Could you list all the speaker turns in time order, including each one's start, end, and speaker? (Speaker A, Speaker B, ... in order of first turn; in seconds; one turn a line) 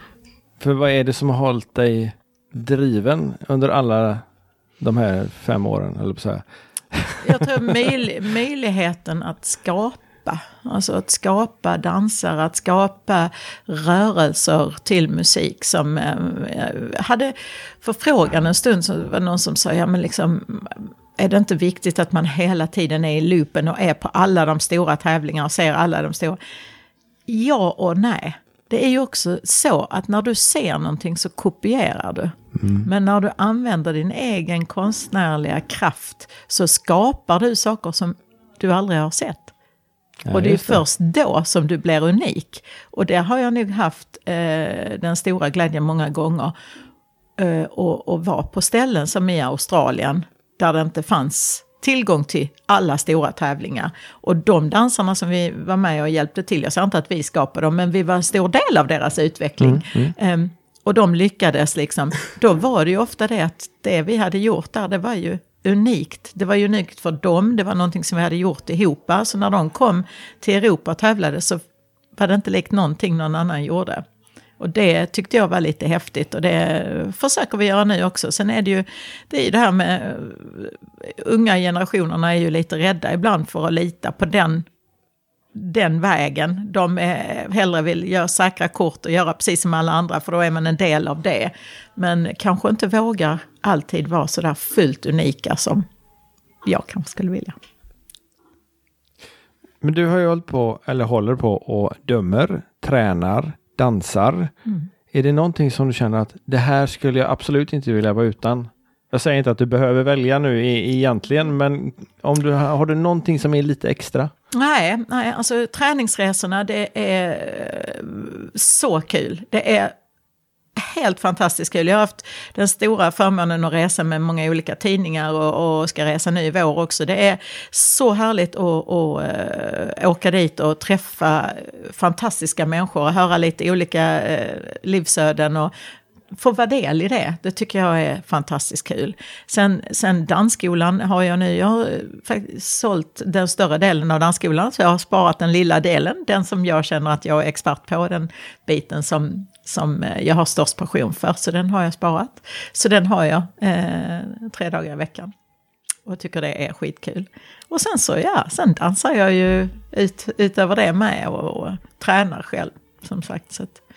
Speaker A: 0.6-4.2
Speaker A: 4.8-7.4
Speaker B: 7.2-26.4
Speaker B: 27.3-39.5
Speaker A: 32.5-32.9
Speaker A: 40.2-40.8
Speaker B: 40.3-46.5
Speaker B: 47.4-71.6
Speaker A: 59.6-60.1
Speaker B: 72.2-74.0
Speaker B: 74.6-84.7
Speaker B: 85.5-95.8
Speaker B: 96.6-97.5
Speaker A: 99.8-104.5
Speaker A: 105.1-114.3
Speaker B: 114.5-119.9
Speaker B: 120.8-135.7
Speaker B: 136.3-155.3
Speaker B: 156.1-163.8